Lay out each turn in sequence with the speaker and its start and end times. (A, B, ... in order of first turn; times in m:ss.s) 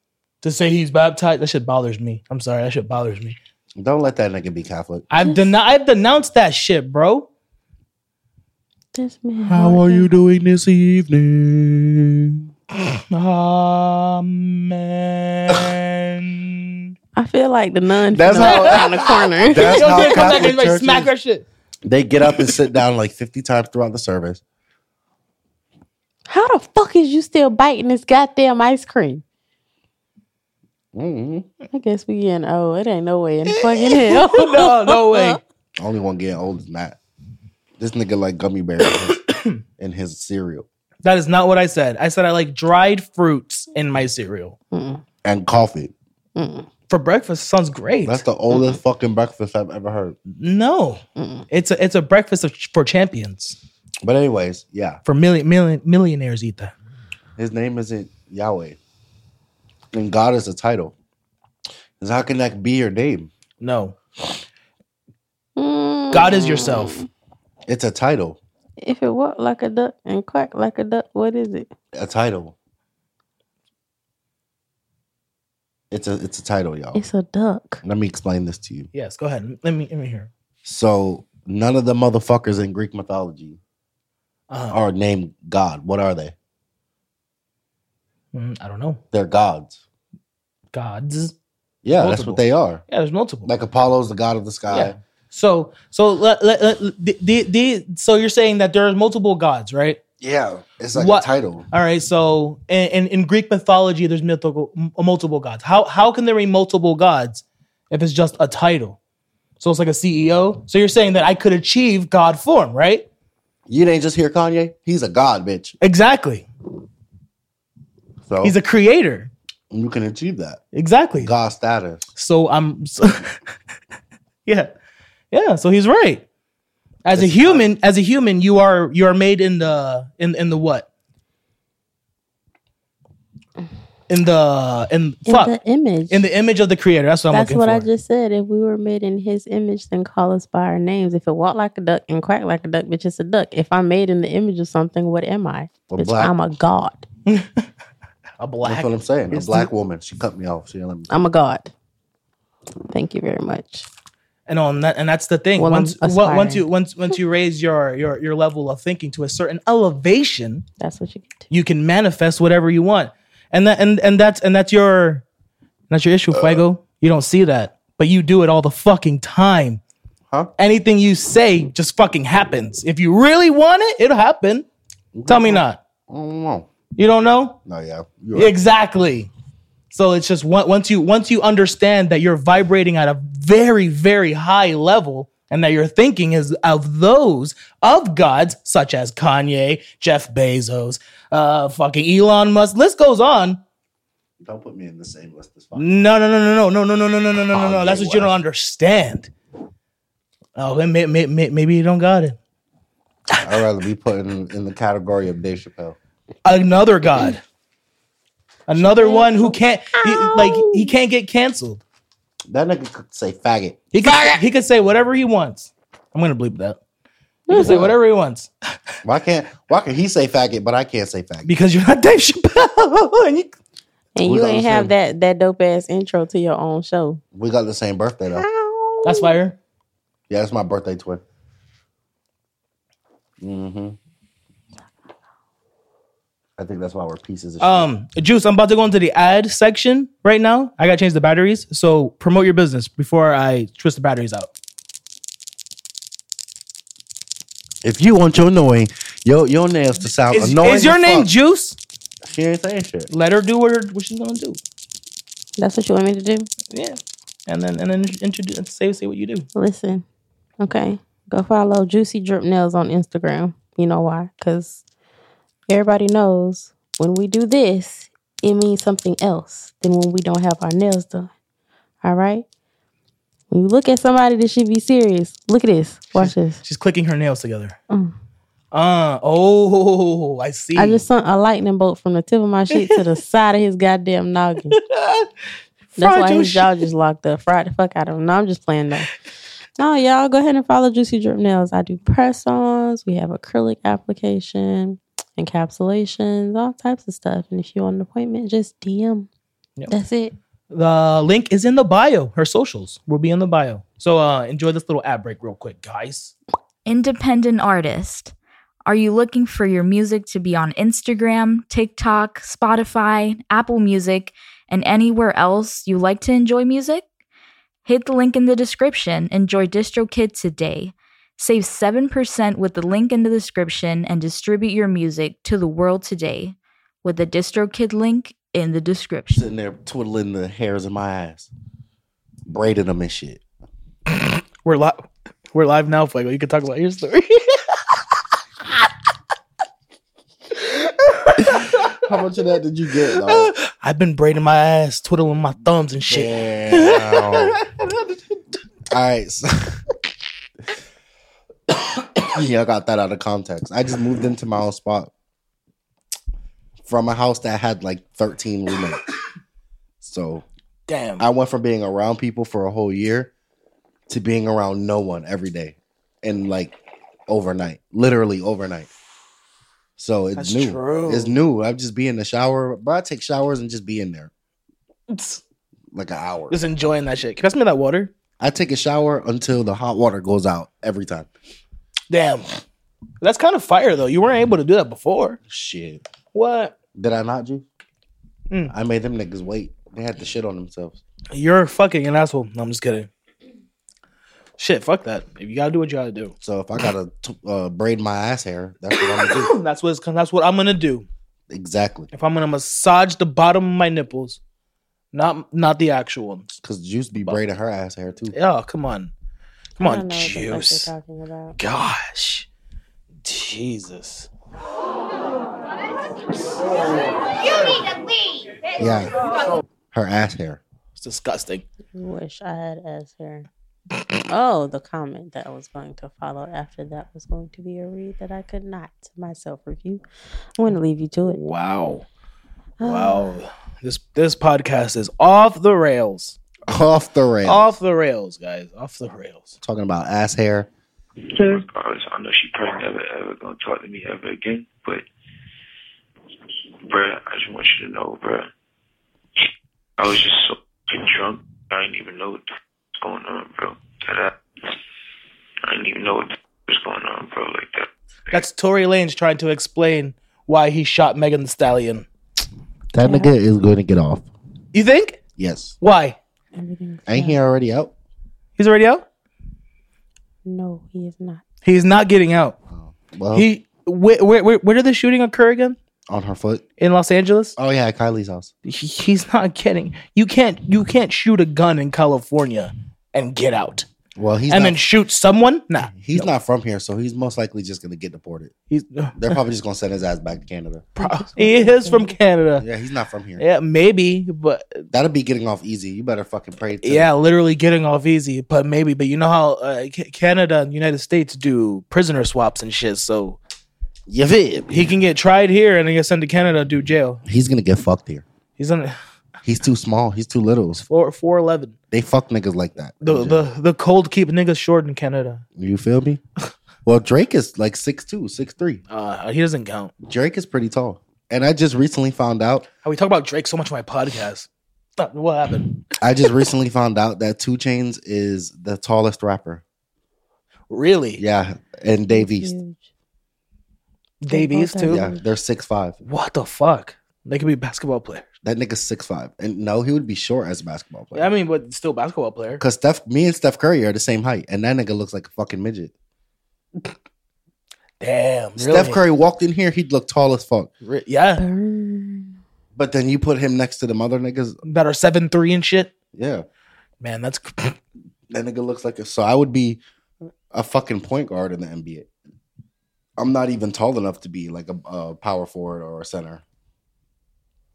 0:00.4-0:03.4 A
0:03.8-0:05.1 B
0:05.1-0:07.3 A
0:08.9-0:10.1 C
0:09.4-0:12.5 B
0:13.1-0:16.9 A
0:17.1-0:20.5 C
0:18.1-0:21.1 B
0:18.3-0:21.4 A
0:21.8-0:24.4 B
0:26.3-0:29.2 C
0:30.9-0:31.5 B
0:31.7-0:35.4 C
0:33.4-0:35.4 A
0:35.8-0:37.0 B
0:37.8-0:39.2 B
0:39.3-0:39.6 A
0:39.8-0:40.6 B
0:41.0-0:44.6 A
0:44.7-0:45.0 C
0:45.2-0:45.9 B
0:46.4-0:46.7 C
0:46.9-0:48.2 A
0:48.0-0:50.2 B
0:50.4-0:53.6 A
0:51.2-0:51.4 C
0:54.0-0:55.0 B
0:55.0-0:56.7 A
0:57.4-0:58.8 B
0:59.9-1:00.9 B
1:02.0-1:03.3 B
1:03.6-1:04.0 A
1:05.6-1:07.1 C
1:06.1-1:07.0 A
1:07.7-1:08.4 B
1:08.8-1:11.7 C
1:11.9-1:12.5 B
1:15.9-1:17.0 B
1:16.9-1:17.8 C
1:17.8-1:18.9 B
1:18.9-1:20.3 A
1:20.6-1:23.6 B
1:24.5-1:24.8 A
1:24.7-1:26.3 B
1:28.3-1:29.0 A
1:29.1-1:29.8 B
1:30.7-1:31.3 A
1:31.8-1:32.8 B
1:32.0-1:33.5 A
1:33.4-1:34.9 B
1:34.7-1:40.0 A
1:40.2-1:41.7 B
1:40.9-1:49.0 A
1:49.6-1:53.0 A
1:53.7-1:55.8 B
1:55.8-1:56.4 A
1:58.3-1:58.6 B
1:58.4-1:59.3 A
1:59.7-2:00.6 B
2:00.7-2:01.3 A
2:01.2-2:02.1 B
2:02.2-2:03.4 A
2:04.4-2:04.7 A
2:05.3-2:06.2 A
2:07.0-2:10.9 A
2:07.1-2:07.7 B
2:14.1-2:15.5 A
2:15.2-2:16.2 C
2:16.1-2:17.9 A
2:17.3-2:27.0 C
2:25.9-2:26.3 B
2:27.2-2:27.6 A
2:28.4-2:29.6 A
2:28.6-2:31.1 B
2:31.1-2:31.7 C
2:32.9-2:33.9 C
2:34.5-2:40.6 A
2:35.6-2:36.7 C
2:40.8-2:41.4 C
2:41.5-2:45.2 A
2:45.9-2:49.8 A
2:46.3-2:46.6 B
2:50.6-2:54.7 A
2:55.1-2:56.7 B
2:55.3-2:55.8 A
2:57.0-2:57.6 A
2:57.6-2:58.6 B
2:58.3-2:59.3 A
2:59.9-3:13.6 A
3:14.4-3:15.9 B
3:15.7-3:19.3 A
3:17.4-3:18.4 B
3:20.6-3:22.4 A
3:23.4-3:26.0 B
3:26.4-3:27.4 A
3:28.7-3:31.8 A
3:28.7-3:30.9 C
3:32.5-3:33.9 B
3:33.9-3:36.8 A
3:37.5-3:37.9 C
3:37.5-3:38.5 A
3:37.5-3:37.9 B
3:39.0-3:41.5 B
3:41.4-3:43.5 A
3:44.1-3:47.2 C
3:44.2-3:44.9 B
3:47.3-3:48.5 B
3:48.3-3:49.3 C
3:49.0-3:49.6 A
3:50.3-3:51.2 B
3:53.4-3:54.0 B
3:56.6-3:57.9 B
3:57.6-4:04.5 A
4:07.8-4:11.3 B
4:10.3-4:11.8 A
4:12.2-4:13.1 B
4:13.1-4:14.6 A
4:15.6-4:16.5 C
4:16.7-4:19.5 A
4:19.5-4:20.0 C
4:20.6-4:24.8 C
4:25.7-4:31.3 C
4:32.0-4:32.4 C
4:33.5-4:36.6 C
4:36.1-4:37.8 A
4:38.7-4:41.0 A
4:40.8-4:44.8 C
4:42.7-4:43.0 A
4:44.7-4:45.3 A
4:45.9-4:46.8 A
4:46.0-4:49.1 C
4:49.8-4:59.3 C
4:59.9-5:00.3 C
5:00.7-5:06.3 A
5:06.8-5:08.3 D
5:08.8-5:17.0 D
5:17.8-5:29.5 D
5:29.3-5:31.5 B
5:32.4-5:33.4 B
5:34.1-5:38.0 A
5:40.6-5:41.9 A
5:41.4-5:43.5 B
5:43.2-5:47.6 A
5:46.0-5:47.6 B
5:48.9-5:49.8 B
5:52.2-5:55.1 B
5:56.8-5:59.0 B
6:00.0-6:00.4 B
6:00.9-6:01.2 A
6:01.2-6:03.3 B
6:04.1-6:06.7 B
6:07.3-6:08.9 B
6:10.0-6:14.3 B
6:10.4-6:11.4 A
6:15.1-6:15.4 A
6:15.9-6:16.6 B
6:16.5-6:18.1 A
6:18.4-6:21.3 B
6:22.1-6:22.5 A
6:23.2-6:25.4 A
6:25.5-6:26.0 B
6:26.3-6:26.7 A
6:26.9-6:27.6 B
6:28.7-6:31.0 B
6:31.3-6:33.1 A
6:34.6-6:36.3 A
6:36.4-6:39.5 B
6:39.0-6:41.1 A
6:41.5-6:42.1 B
6:42.1-6:44.4 A
6:45.1-6:46.6 A
6:46.6-6:48.3 B
6:48.3-6:49.1 A
6:49.8-6:50.9 A
6:49.8-6:51.6 C
6:51.6-6:52.5 A
6:53.2-6:54.3 A
6:58.8-6:59.2 B
6:59.9-7:00.6 B
7:01.0-7:01.6 A
7:01.9-7:03.4 C
7:04.3-7:10.0 C
7:10.6-7:11.4 C
7:11.3-7:12.0 A
7:12.8-7:13.3 C
7:12.8-7:16.4 A
7:16.7-7:17.8 B
7:17.4-7:19.6 A
7:19.6-7:20.7 B
7:21.3-7:25.0 E
7:26.9-7:28.5 E
7:30.0-7:32.4 E
7:33.0-7:34.4 E
7:35.6-7:38.4 E
7:38.3-7:42.1 A
7:42.9-7:44.3 B
7:43.0-7:43.3 C
7:44.7-7:45.2 A
7:45.4-7:45.8 B
7:45.8-7:46.2 A
7:46.5-7:47.4 C
7:47.1-7:47.9 B
7:48.6-7:49.0 A
7:50.4-7:51.4 C
7:51.6-7:52.6 A
7:52.7-7:53.5 B
7:53.3-7:55.8 A
7:56.1-7:56.6 B
7:56.8-7:57.6 A
7:57.6-7:58.5 B
7:58.6-8:03.9 A
8:04.2-8:04.8 B
8:04.5-8:06.3 A
8:05.9-8:08.5 B
8:08.7-8:09.4 A
8:09.1-8:11.0 B
8:11.0-8:12.1 C
8:11.0-8:12.6 A
8:12.6-8:13.4 B
8:13.4-8:14.9 A
8:14.9-8:17.1 B
8:16.8-8:23.4 A
8:24.1-8:24.8 B
8:24.7-8:27.2 A
8:27.2-8:28.2 B
8:28.6-8:28.9 A
8:29.4-8:30.8 B
8:30.8-8:31.8 A
8:31.9-8:33.4 B
8:33.0-8:35.4 A
8:35.6-8:36.2 B
8:36.8-8:38.8 B
8:38.9-8:39.9 A
8:40.0-8:42.7 B
8:42.8-8:46.4 A
8:46.0-8:49.6 B
8:50.7-8:51.2 A
8:51.2-8:52.6 B
8:52.1-8:52.8 C
8:54.2-8:55.1 A
8:54.3-8:55.2 C
8:54.8-8:56.0 B
8:56.0-8:58.2 A
8:58.4-9:01.3 B
9:01.1-9:02.6 A
9:02.6-9:05.9 B
9:08.0-9:09.0 A
9:08.6-9:10.7 B
9:10.8-9:11.4 A
9:11.4-9:12.3 C
9:12.7-9:14.6 B
9:14.6-9:15.9 A
9:16.1-9:16.4 B
9:17.0-9:17.8 A
9:18.3-9:19.8 B
9:20.5-9:22.1 B
9:23.2-9:26.4 B